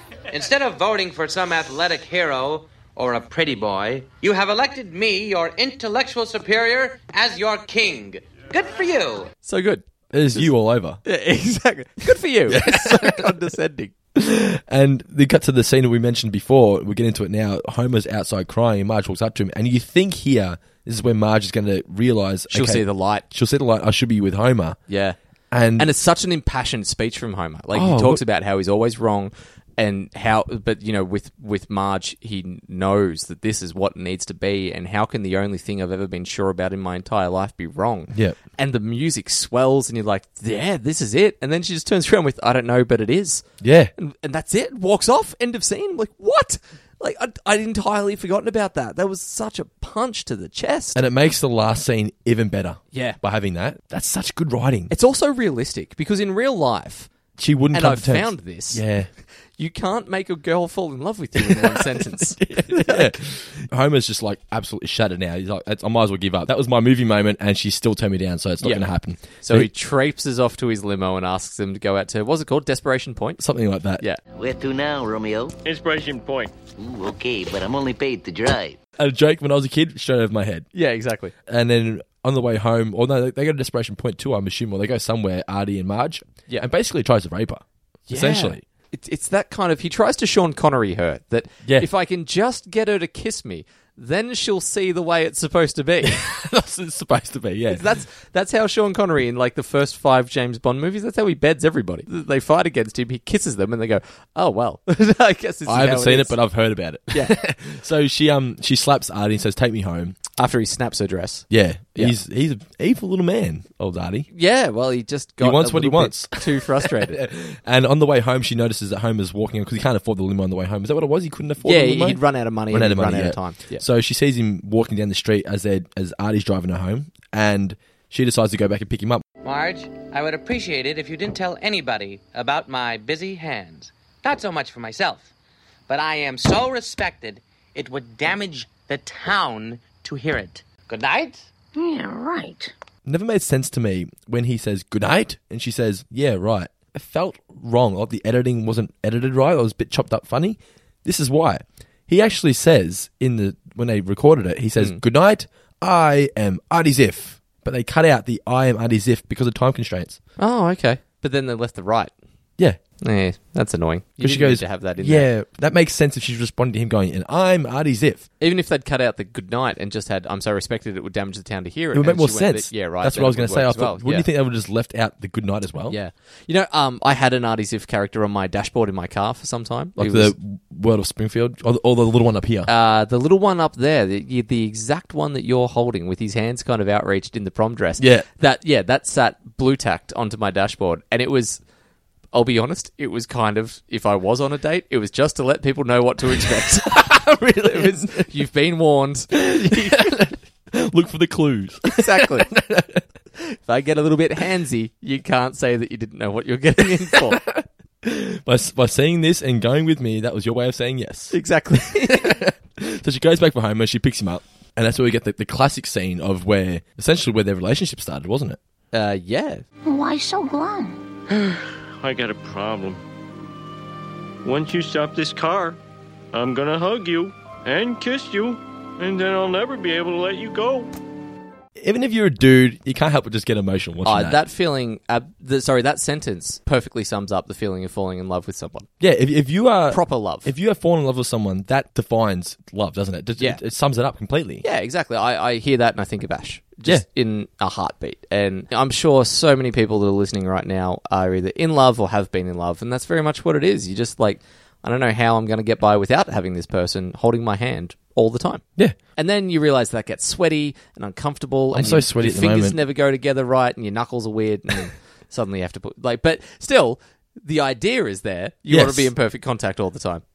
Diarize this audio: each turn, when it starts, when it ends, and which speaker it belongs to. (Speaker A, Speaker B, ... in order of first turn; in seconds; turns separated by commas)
Speaker A: 0.3-9.3, Speaker B: 9.4-10.5, Speaker C: 10.1-11.0, Speaker B: 11.0-13.9, Speaker C: 12.5-13.4, Speaker C: 14.1-24.8, Speaker B: 22.5-23.2, Speaker B: 24.9-25.2, Speaker C: 25.5-25.9, Speaker B: 25.8-43.4, Speaker C: 27.7-28.2, Speaker C: 38.1-38.4, Speaker C: 43.6-43.9, Speaker B: 44.0-51.0, Speaker C: 50.9-54.9, Speaker B: 52.9-53.2, Speaker B: 54.9-57.1, Speaker C: 57.4-59.1, Speaker B: 57.7-58.9, Speaker B: 59.6-63.1, Speaker C: 61.4-69.7, Speaker B: 68.6-73.4, Speaker C: 73.4-74.0, Speaker D: 74.3-75.5, Speaker E: 75.6-76.5, Speaker D: 76.8-78.8, Speaker C: 79.0-80.7, Speaker B: 80.7-81.3, Speaker C: 81.5-88.6, Speaker B: 88.1-96.2, Speaker C: 96.0-97.9, Speaker B: 97.7-106.4, Speaker C: 105.7-110.2, Speaker B: 107.1-107.3, Speaker B: 110.4-112.2, Speaker C: 111.5-114.3, Speaker B: 114.3-117.2, Speaker C: 115.4-129.2, Speaker B: 121.6-123.8, Speaker A: 129.4-135.3, Speaker A: 135.9-141.5, Speaker F: 141.7-142.7, Speaker C: 143.0-160.2, Speaker B: 160.4-162.1, Speaker B: 163.0-165.3, Speaker C: 164.2-168.3, Speaker B: 168.4-174.3, Speaker C: 171.9-176.0, Speaker B: 175.9-180.3, Speaker C: 180.0-182.7, Speaker B: 182.7-191.6, Speaker C: 188.0-188.2, Speaker B: 192.3-200.2, Speaker C: 196.5-198.3, Speaker C: 199.3-203.0, Speaker B: 201.9-202.5, Speaker B: 203.4-207.4, Speaker C: 207.1-211.3, Speaker B: 211.3-212.4, Speaker C: 211.9-218.6, Speaker B: 218.9-219.6, Speaker F: 219.8-221.0, Speaker E: 221.4-223.0, Speaker E: 224.4-225.8, Speaker E: 226.3-230.9, Speaker C: 231.8-234.4, Speaker B: 234.0-238.9, Speaker C: 239.0-244.6, Speaker B: 239.9-240.5, Speaker B: 244.6-258.6, Speaker B: 259.1-270.2, Speaker C: 261.7-262.8, Speaker C: 268.7-269.1